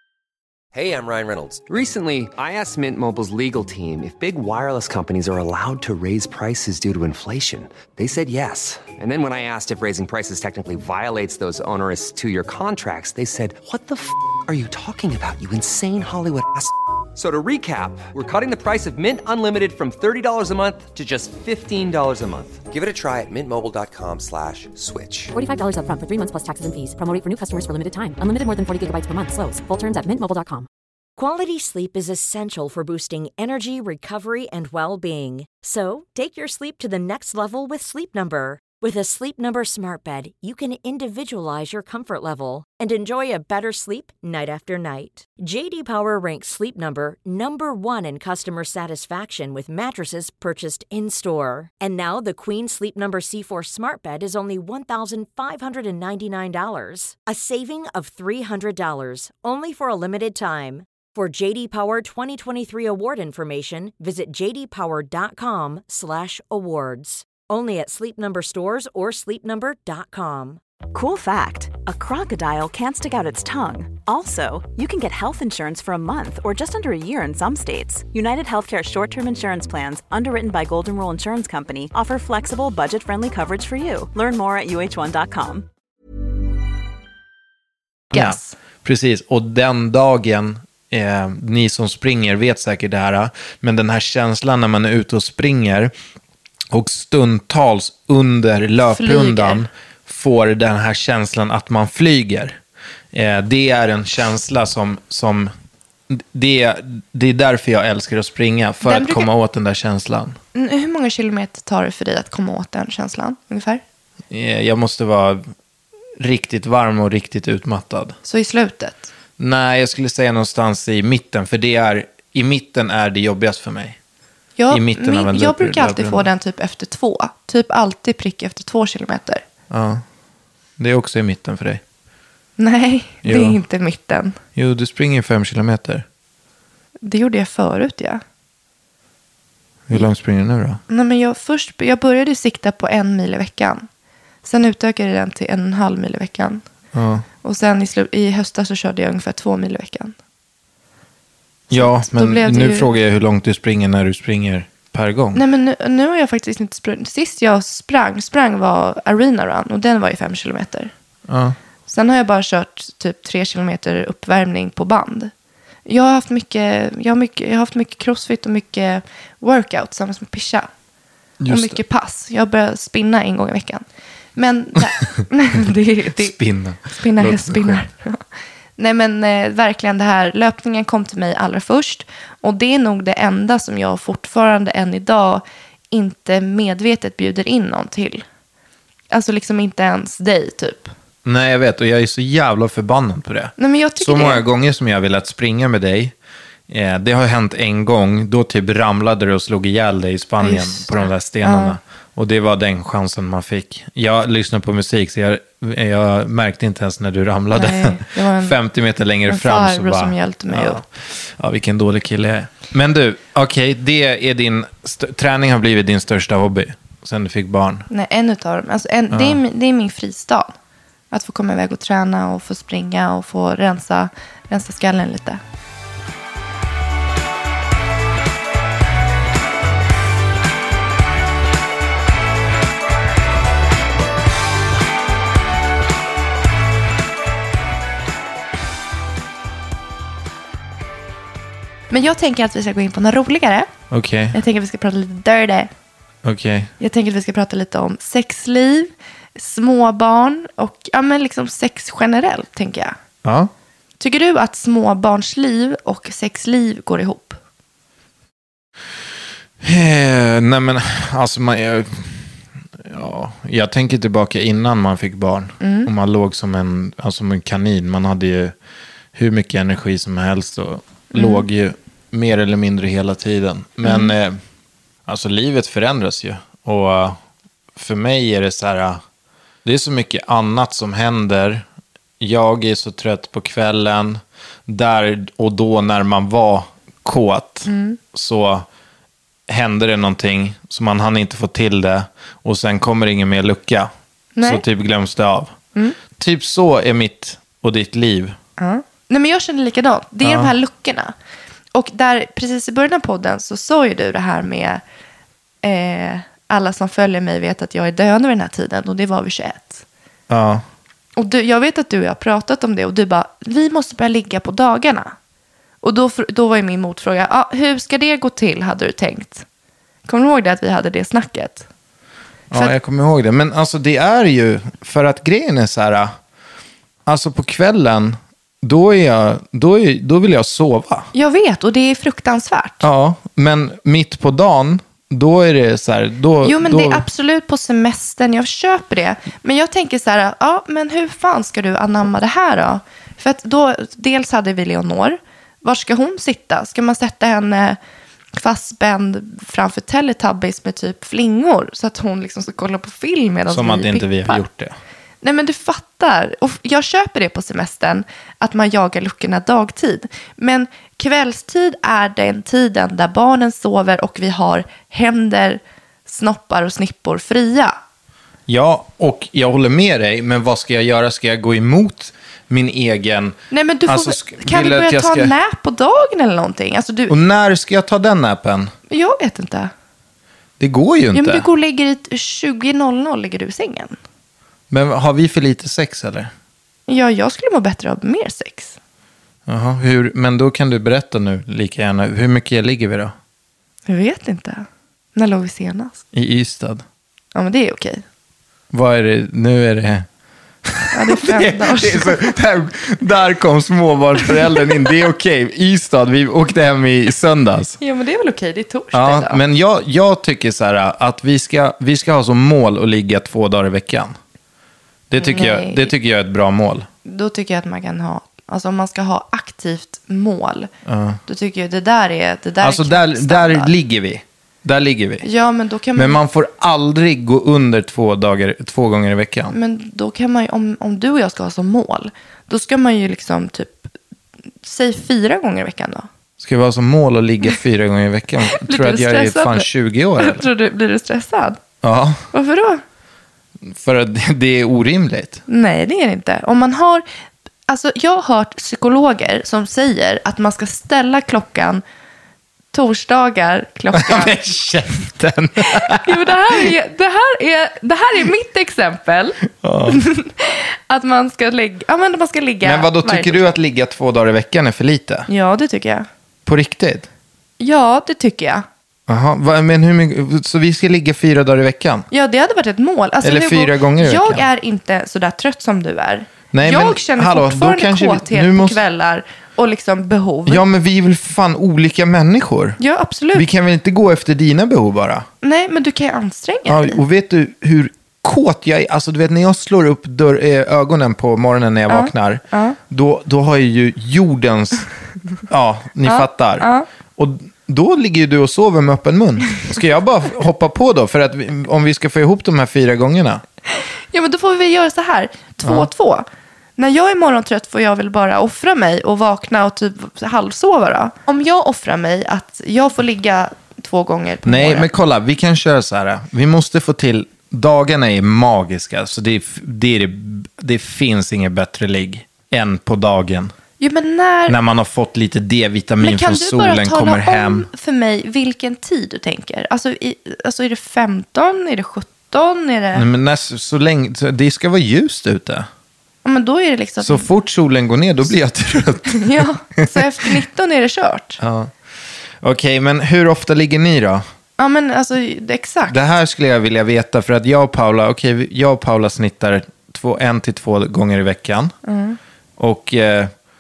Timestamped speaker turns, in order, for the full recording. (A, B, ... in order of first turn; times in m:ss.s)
0:00.7-0:25.3 A
0:25.3-0:30.7 B
0:31.2-1:10.6 C
1:10.9-1:25.7 D
1:28.1-1:35.9 E
1:28.1-1:28.5 F
1:36.7-1:42.6 E
1:38.9-1:39.6 F
1:43.1-1:45.5 E
1:46.1-1:50.4 E
1:48.8-1:49.3 F
1:50.5-1:53.8 F
1:54.3-1:55.5 E
1:56.2-1:58.2 E
1:58.2-1:59.1 F
1:59.4-2:04.0 E
2:04.6-2:09.4 F
2:04.7-2:06.3 E
2:09.7-2:10.0 E
2:10.8-2:11.8 E
2:12.6-2:14.4 F
2:13.2-2:13.6 E
2:14.6-2:16.1 E
2:17.0-2:18.2 F
2:19.9-2:20.8 E
2:20.9-2:23.9 F
2:24.4-2:26.6 F
2:26.9-2:27.2 E
2:27.4-2:30.2 F
2:31.7-2:32.9 F
2:31.7-2:35.4 E
2:35.4-2:40.9 F
2:41.3-2:41.6 E
2:41.9-2:45.3 F
2:45.9-2:50.7 F
2:51.4-2:51.8 E
2:51.5-2:53.8 F
2:54.4-2:56.4 F
2:56.1-2:57.8 E
2:56.9-2:58.2 F
2:58.8-3:08.2 F
3:09.1-3:10.9 F
3:11.2-3:16.2 E
3:13.6-3:14.4 F
3:16.7-3:37.9 E
3:20.4-3:21.8 F
3:27.5-3:28.6 F
3:29.3-3:30.8 F
3:37.9-3:40.6 F
3:39.1-3:39.4 E
3:41.1-3:45.4 F
4:01.9-4:03.7 F
4:03.9-4:04.4 E
4:04.3-4:05.7 F
4:06.2-4:06.7 E
4:06.8-4:13.0 F
4:13.2-4:13.5 E
4:14.0-4:17.4 F
4:19.6-4:28.5 E
4:25.6-4:25.9 F
4:29.1-4:34.4 E
4:31.1-4:31.4 F
4:33.8-4:34.1 F
4:35.1-4:37.2 E
4:37.8-4:39.0 E
4:39.6-4:41.7 E
4:42.2-4:48.7 E
4:47.7-4:48.0 F
4:49.5-4:53.9 E
4:54.4-4:54.6 F
4:54.4-4:55.6 E
4:56.1-4:58.4 E
4:58.6-5:01.1 F
5:00.2-5:00.5 E
5:01.7-5:04.8 F
5:05.6-5:09.8 F
5:10.3-5:10.6 E
5:11.2-5:15.1 F
5:15.8-5:19.4 F
5:20.1-5:21.7 F
5:22.5-5:26.1 E
5:27.1-5:31.1 E
5:31.1-5:32.9 F
5:32.8-5:37.0 E
5:36.4-5:47.8 F
5:48.4-5:54.4 F
5:53.5-5:54.8 E
5:55.2-6:07.8 F
6:08.5-6:15.3 E
6:13.5-6:17.2 F
6:17.1-6:18.7 E
6:18.9-6:19.7 F
6:20.6-6:21.5 E
6:21.1-6:24.0 F
6:24.7-6:26.3 E
6:26.9-6:28.8 F
6:29.5-6:33.2 E
6:33.9-6:36.0 F
6:36.1-6:36.8 E
6:37.4-6:38.0 F
6:38.7-6:40.1 E
6:40.6-6:47.8 E
6:40.9-6:42.3 F
6:47.8-6:49.4 F
6:48.9-6:54.2 E
6:55.1-6:56.9 E
6:55.2-6:55.9 F
6:57.1-7:00.7 F
7:00.8-7:01.2 E
7:01.3-7:03.7 F
7:02.6-7:05.3 E
7:05.2-7:06.2 F
7:06.0-7:09.6 E
7:09.5-7:13.9 F
7:14.6-7:16.1 F
7:16.4-7:20.5 E
7:18.5-7:21.6 F
7:21.8-7:22.2 E
7:22.3-7:22.8 F
7:23.6-7:25.4 E
7:25.5-7:27.0 F
7:27.7-7:31.8 F
7:32.7-7:34.4 F
7:33.9-7:36.7 E
7:35.7-7:43.5 F
7:39.6-7:40.0 E
7:42.6-7:45.3 E
7:45.3-7:46.1 F
7:46.4-7:47.1 E
7:47.6-7:48.7 F
7:49.1-7:52.1 E
7:52.1-8:00.6 F
7:53.2-7:54.5 E
7:56.5-7:58.8 E
8:00.5-8:02.8 E
8:02.8-8:03.5 F
8:03.3-8:05.3 E
8:05.4-8:07.0 F
8:06.7-8:14.9 E
8:11.9-8:12.8 F
8:15.5-8:23.4 E
8:16.0-8:16.9 F
8:24.1-8:26.3 F
8:26.8-8:34.9 F
8:34.4-8:43.5 E
8:43.8-8:44.6 F
8:44.5-8:47.7 E
8:46.0-8:53.1 F
8:52.9-8:55.7 E
8:56.2-8:57.3 F
8:57.0-9:00.3 E
8:59.1-9:01.4 F
9:01.4-9:01.8 E
9:02.4-9:04.2 E
9:04.6-9:06.0 F
9:05.9-9:11.8 E
9:11.8-9:12.2 F
9:12.6-9:13.3 E